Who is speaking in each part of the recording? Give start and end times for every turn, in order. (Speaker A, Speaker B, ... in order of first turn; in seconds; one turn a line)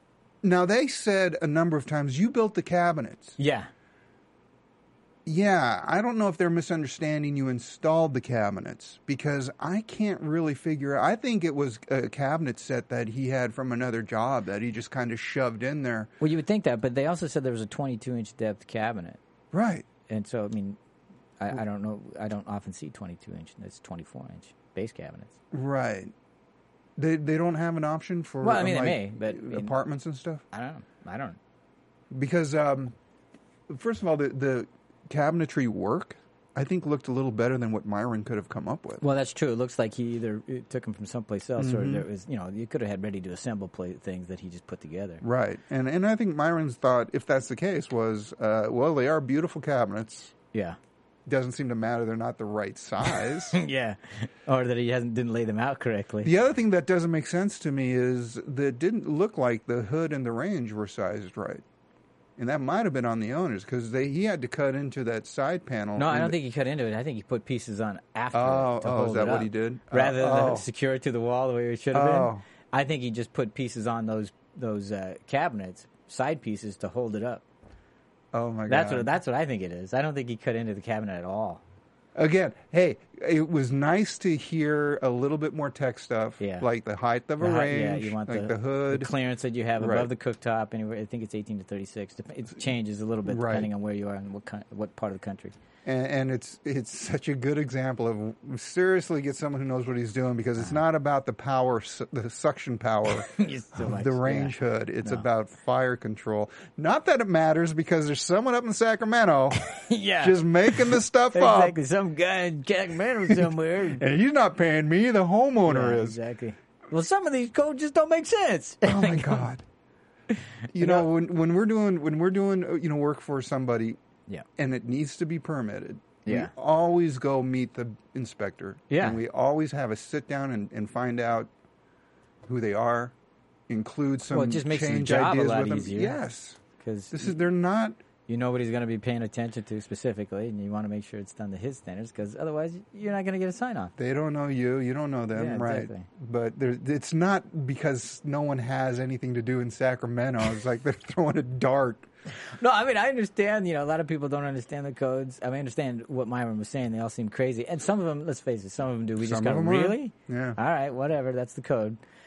Speaker A: 0.4-3.4
Speaker B: 3.4-3.7
Speaker A: 5.2-16.1
Speaker B: 16.2-19.2
Speaker A: 19.5-19.9
Speaker B: 20.1-20.8
Speaker B: 21.4-25.4
Speaker A: 25.5-26.1
Speaker A: 27.0-30.4
Speaker B: 28.4-29.8
Speaker B: 30.5-31.4
Speaker A: 32.1-32.9
Speaker A: 33.7-39.0
Speaker B: 39.0-45.2
Speaker A: 41.6-42.0
Speaker A: 45.2-50.3
Speaker A: 51.2-53.6
Speaker B: 53.5-56.3
Speaker A: 56.2-61.6
Speaker A: 62.4-66.3
Speaker B: 66.0-77.4
Speaker A: 68.3-70.7
Speaker A: 71.9-72.4
Speaker A: 78.3-79.1
Speaker B: 78.7-81.6
Speaker A: 82.1-89.1
Speaker B: 86.4-86.7
Speaker B: 87.4-95.6
Speaker A: 89.8-90.1
Speaker A: 93.2-93.7
Speaker A: 95.8-109.6
Speaker B: 103.2-105.2
Speaker B: 109.5-114.0
Speaker A: 110.2-111.8
Speaker A: 113.2-116.2
Speaker B: 115.7-119.4
Speaker A: 118.8-119.6
Speaker B: 120.3-121.0
Speaker A: 120.7-124.0
Speaker A: 124.6-131.5
Speaker B: 126.2-126.5
Speaker B: 128.9-129.2
Speaker A: 132.4-133.1
Speaker A: 133.7-136.6
Speaker B: 134.3-136.2
Speaker B: 136.8-137.3
Speaker A: 137.1-138.0
Speaker B: 138.3-143.9
Speaker A: 144.0-152.1
Speaker B: 145.3-146.1
Speaker B: 152.5-162.0
Speaker A: 159.2-160.6